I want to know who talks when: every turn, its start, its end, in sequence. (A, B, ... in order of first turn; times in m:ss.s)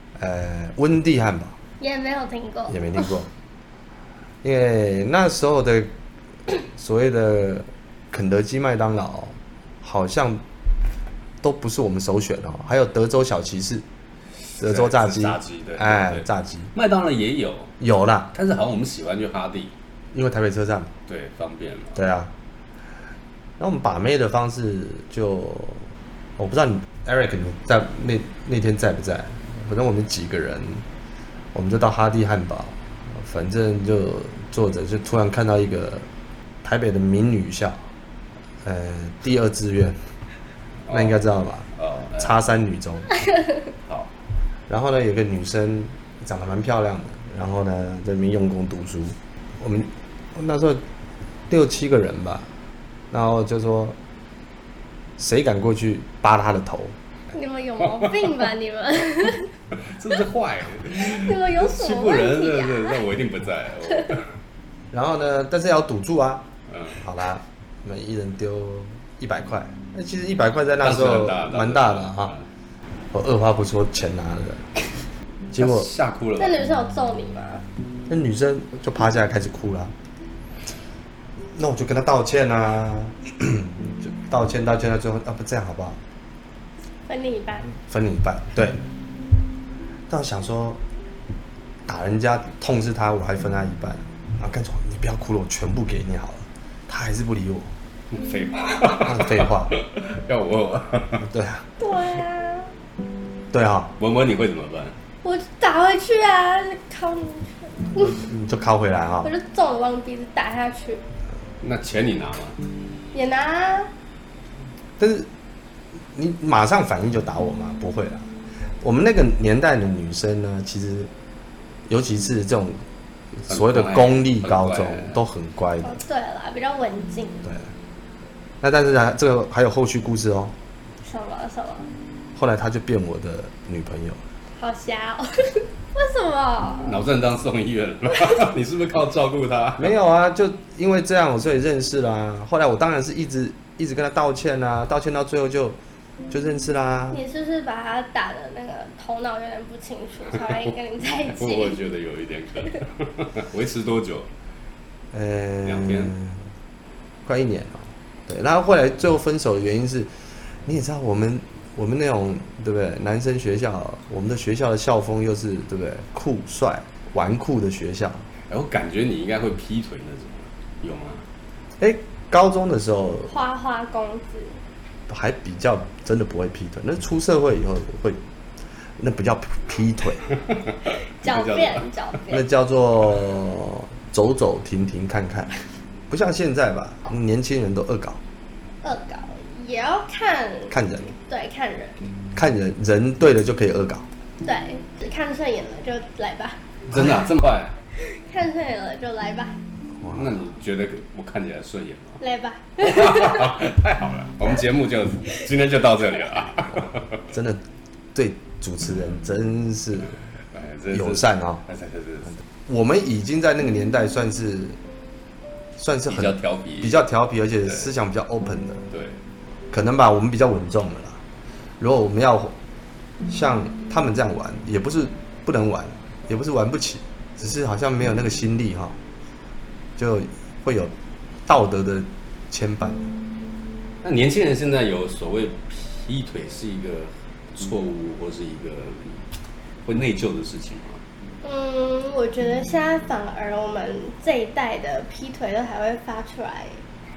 0:00.2-0:01.6 A
0:01.8-0:03.1 B
0:02.7-0:03.3 A
0:04.4-0:05.9 A
0:06.5-0:10.4 A
0:11.4-0:13.8 A
0:14.5-0:17.7 C
0:14.6-0:16.7 A
0:17.8-0:18.3 A
0:18.3-0:19.7 C
0:20.1-0:20.9 A
0:21.1-0:22.0 C
0:22.0-0:22.3 A
0:23.6-0:30.8 A
0:31.5-0:36.1 A
0:36.6-0:37.8 A
0:38.6-0:40.0 A
0:40.9-0:41.2 C
0:40.9-0:43.1 A
0:41.8-0:42.4 C
0:43.8-0:44.1 C
0:44.7-0:50.8 A
0:51.5-0:52.5 A
0:53.1-0:54.0 A
0:55.2-0:57.0 A
0:57.3-0:59.5 B
0:59.8-1:04.4 C
1:01.1-1:03.0 B
1:04.9-1:06.5 A
1:06.7-1:07.0 C
1:07.0-1:12.4 A
1:10.8-1:12.5 C
1:13.1-1:14.7 A
1:15.5-1:15.9 A
1:15.5-1:16.6 C
1:16.4-1:17.6 B
1:18.1-1:19.9 A
1:21.6-1:26.0 A
1:27.1-1:27.7 B
1:27.9-1:28.8 A
1:30.1-1:30.8 A
1:31.9-1:37.7 A
1:38.1-1:41.3 C
1:39.0-1:39.7 A
1:41.2-1:41.7 A
1:41.8-1:42.7 B
1:43.5-1:43.9 A
1:44.0-1:45.0 C
1:45.2-1:48.2 B
1:48.0-1:49.3 A
1:49.2-1:51.0 B
1:51.6-1:52.6 C
1:53.1-1:53.9 B
1:55.0-1:55.3 A
1:56.1-1:58.3 A
1:58.8-2:01.1 A
2:01.9-2:02.8 A
2:03.4-2:06.0 A
2:03.5-2:05.2 C
2:05.8-2:07.5 B
2:08.6-2:10.5 A
2:11.0-2:11.9 B
2:12.4-2:14.2 A
2:14.6-2:17.0 B
2:16.8-2:20.0 C
2:19.8-2:25.8 A
2:26.3-2:27.2 A
2:27.1-2:31.8 B
2:30.7-2:34.3 C
2:35.1-2:36.5 A
2:35.6-2:36.2 C
2:37.3-2:48.3 A
2:48.5-2:51.2 C
2:51.8-2:53.3 A
2:53.3-2:54.6 B
2:55.1-2:58.2 A
2:59.0-3:00.2 A
3:00.9-3:02.5 B
3:01.2-3:01.9 C
3:02.3-3:08.2 A
3:08.8-3:12.0 B
3:10.7-3:11.1 A
3:12.3-3:14.1 A
3:14.4-3:16.6 B
3:16.9-3:17.8 C
3:17.9-3:19.6 B
3:20.0-3:20.4 A
3:20.1-3:22.2 C
3:22.2-3:23.5 B
3:22.8-3:27.2 C
3:27.3-3:27.6 A
3:28.1-3:30.2 A
3:30.5-3:32.4 C
3:30.9-3:31.6 A
3:32.7-3:34.8 A
3:35.8-3:38.9 A
3:36.1-3:37.0 C
3:38.9-3:39.2 C
3:39.7-3:41.2 A
3:41.8-3:42.6 A
3:43.3-3:49.0 A
3:50.0-3:50.9 A
3:51.5-3:53.1 A
3:54.0-3:59.2 C
3:59.8-4:01.0 C
4:01.4-4:06.8 B